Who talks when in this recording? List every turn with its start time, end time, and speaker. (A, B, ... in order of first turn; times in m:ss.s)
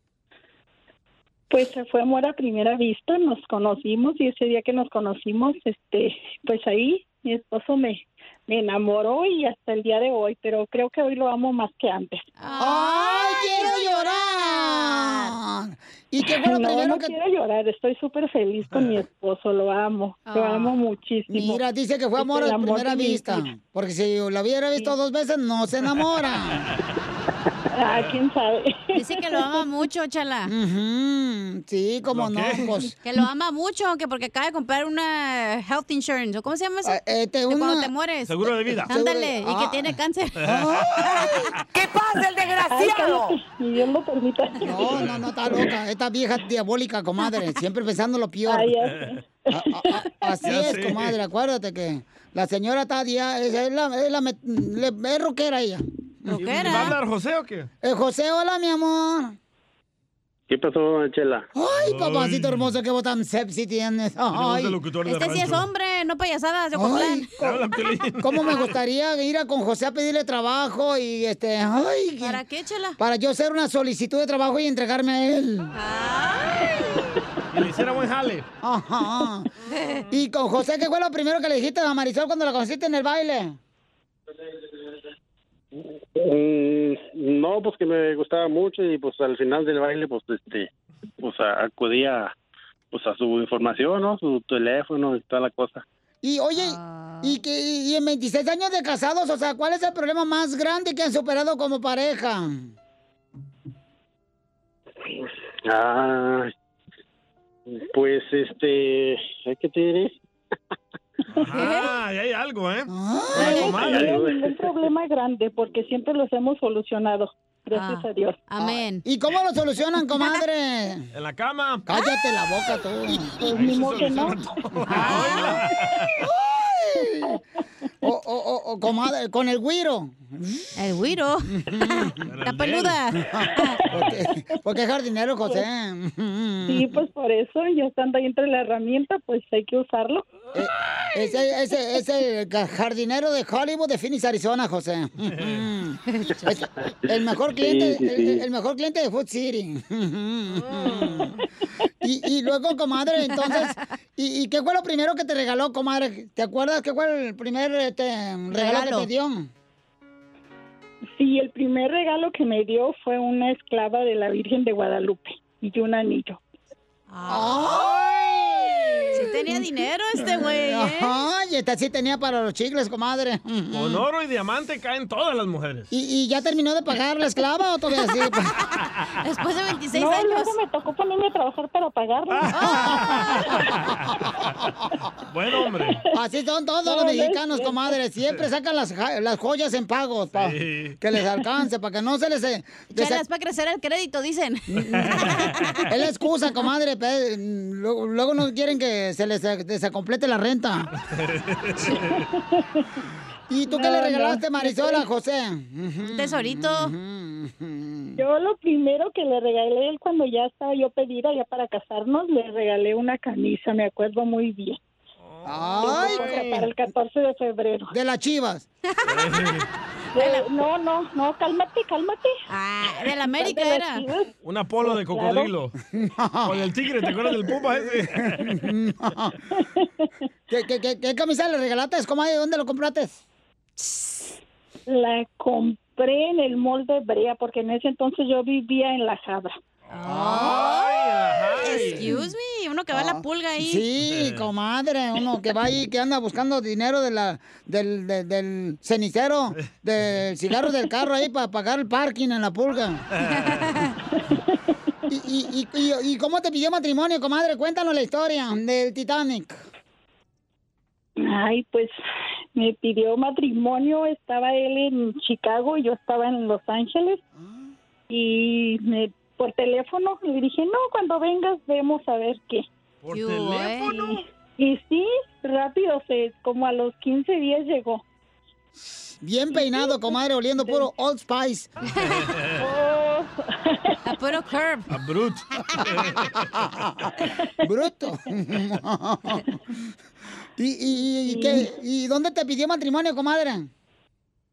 0:01.5-0:12.2 A
0:12.4-0:15.3 B
0:12.6-0:17.2 C
0:16.4-0:21.6 A
0:18.7-0:19.0 D
0:20.3-0:20.8 B
0:21.3-0:26.7 C
0:22.2-0:23.5 A
0:27.8-0:29.6 A
0:28.9-0:30.5 B
0:30.5-0:32.9 C
0:32.1-0:32.7 D
0:33.0-0:37.0 B
0:36.8-0:37.9 C
0:37.5-0:41.5 B
0:38.3-0:38.9 D
0:38.8-0:41.5 C
0:40.4-0:40.8 D
0:42.7-0:44.8 A
0:44.6-0:48.7 C
0:44.9-0:45.3 D
0:48.5-0:50.6 A
0:48.8-0:49.2 D
0:49.5-0:57.0 C
0:50.4-0:51.2 D
0:56.3-0:57.0 B
0:56.3-0:57.7 D
0:57.8-0:59.4 C
1:00.5-1:01.5 E
1:01.6-1:04.8 C
1:01.7-1:02.7 D
1:04.3-1:05.7 D
1:05.1-1:07.3 B
1:06.7-1:07.6 C
1:07.4-1:08.8 D
1:08.2-1:12.4 C
1:12.2-1:13.0 B
1:13.0-1:15.7 C
1:15.7-1:17.0 B
1:17.5-1:18.5 D
1:18.6-1:19.5 C
1:19.8-1:20.0 B
1:20.1-1:23.6 C
1:26.2-1:30.7 E
1:31.2-1:32.3 E
1:32.9-1:35.8 E
1:36.2-1:42.7 C
1:36.6-1:37.4 B
1:45.7-1:46.5 E
1:47.7-1:50.2 E
1:51.3-1:52.9 D
1:51.5-1:52.0 B
1:52.9-1:53.8 C
1:53.4-1:53.7 B
1:53.4-1:58.4 A
1:53.4-1:54.8 E
1:53.4-1:54.1 D
1:57.7-1:59.0 B
1:59.0-2:01.1 C
2:01.1-2:01.9 D
2:01.9-2:03.4 C
2:03.4-2:04.6 A
2:03.4-2:06.1 D
2:04.9-2:05.6 B
2:05.0-2:05.4 C
2:06.2-2:07.4 C
2:08.0-2:10.7 C
2:10.8-2:11.5 B
2:11.5-2:12.2 C
2:12.2-2:13.0 D
2:12.4-2:13.8 B
2:13.3-2:17.0 C
2:13.9-2:14.4 A
2:16.7-2:20.2 A
2:20.5-2:31.3 C
2:26.1-2:26.5 B
2:27.6-2:28.4 E
2:30.6-2:31.3 D
2:32.0-2:39.5 C
2:33.3-2:33.8 B
2:38.5-2:39.1 B
2:41.1-2:46.4 A
2:47.1-2:47.9 B
2:47.3-2:49.7 C
2:49.1-2:51.1 B
2:50.2-2:54.1 C
2:53.7-2:55.9 D
2:55.9-2:58.6 C
2:59.2-3:00.5 B
2:59.9-3:03.2 A
3:02.3-3:04.5 D
3:02.5-3:03.1 B
3:02.7-3:03.6 C
3:05.3-3:06.0 D
3:05.8-3:06.1 A
3:06.1-3:13.2 C
3:06.8-3:08.0 A
3:10.3-3:11.0 D
3:12.9-3:15.8 B
3:14.8-3:15.4 C
3:14.8-3:15.9 D
3:15.9-3:20.9 C
3:21.1-3:22.1 D
3:21.9-3:22.9 A
3:23.5-3:28.2 C
3:23.7-3:25.1 A
3:26.0-3:26.9 B
3:28.2-3:34.8 A
3:35.3-3:36.7 D
3:35.5-3:36.4 C
3:35.8-3:37.9 A
3:37.9-3:38.7 C
3:38.9-3:39.5 B
3:39.1-3:39.7 D
3:40.2-3:40.5 B
3:40.2-3:42.3 A
3:42.5-3:44.0 B
3:43.2-3:44.3 A
3:44.4-3:45.7 D
3:44.8-3:45.5 A
3:45.9-3:46.6 C
3:46.4-3:48.3 D
3:48.3-3:49.4 C
3:49.6-3:50.1 A
3:50.5-3:53.2 C
3:53.8-3:54.3 B
3:54.9-3:59.6 A
3:59.9-4:01.0 B
4:00.0-4:02.1 D
4:01.6-4:03.8 B
4:02.9-4:13.0 C
4:04.1-4:04.4 D
4:13.2-4:13.9 B
4:13.2-4:13.7 D
4:14.1-4:14.6 A
4:15.1-4:19.6 C
4:21.2-4:22.0 A
4:22.6-4:27.2 A
4:27.4-4:27.7 C
4:28.1-4:32.7 A
4:33.0-4:34.2 D
4:33.1-4:34.1 B
4:34.1-4:38.0 A
4:39.2-4:41.7 C
4:39.6-4:40.9 A
4:41.9-4:42.2 B
4:42.0-4:42.6 D
4:42.6-4:44.0 A
4:44.0-4:44.9 B
4:44.9-4:46.2 D
4:46.1-4:49.8 C
4:50.6-4:53.7 C
4:51.2-4:51.7 A